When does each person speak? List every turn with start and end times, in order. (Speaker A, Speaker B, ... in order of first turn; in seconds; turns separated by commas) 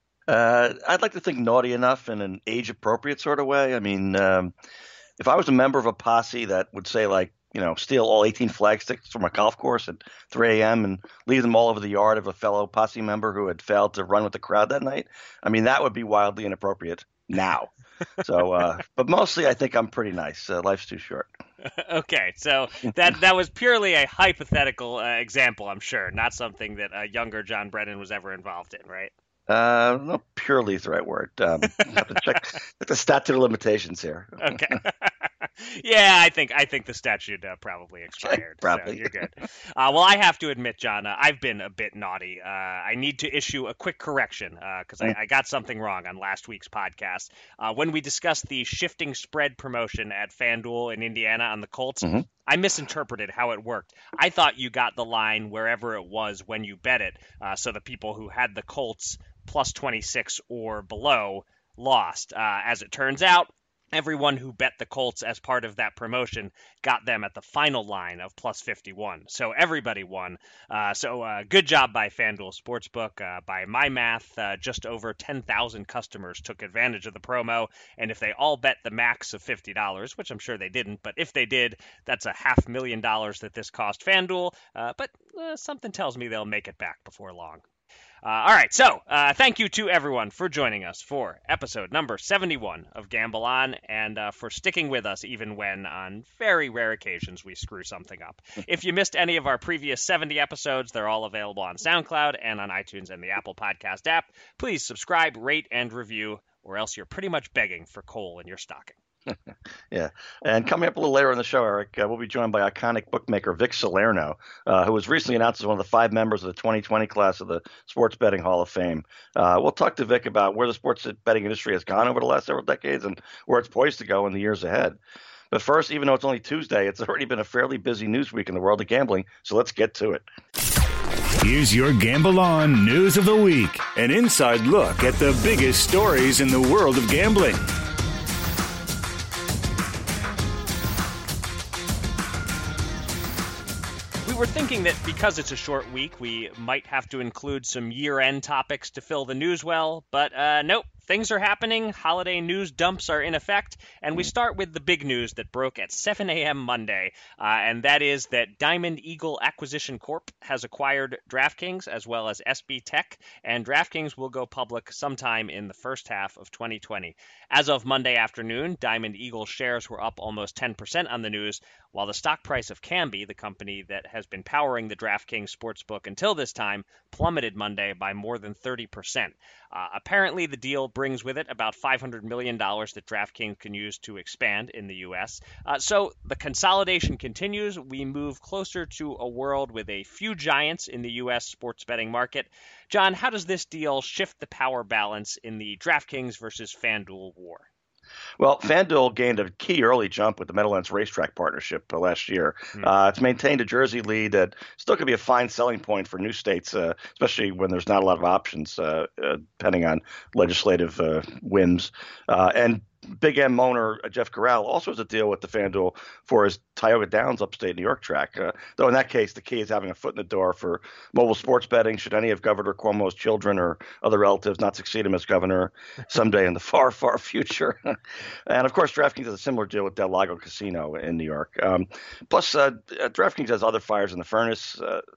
Speaker A: 0.3-4.5, Speaker A: 5.2-17.7, Speaker A: 18.2-21.3, Speaker B: 21.6-29.1, Speaker A: 29.5-34.7, Speaker B: 31.8-32.1, Speaker B: 34.4-87.6, Speaker A: 38.2-39.1, Speaker B: 88.2-109.0, Speaker A: 109.9-125.0, Speaker A: 125.5-130.2, Speaker C: 131.4-137.7, Speaker B: 144.2-197.7, Speaker A: 198.4-235.0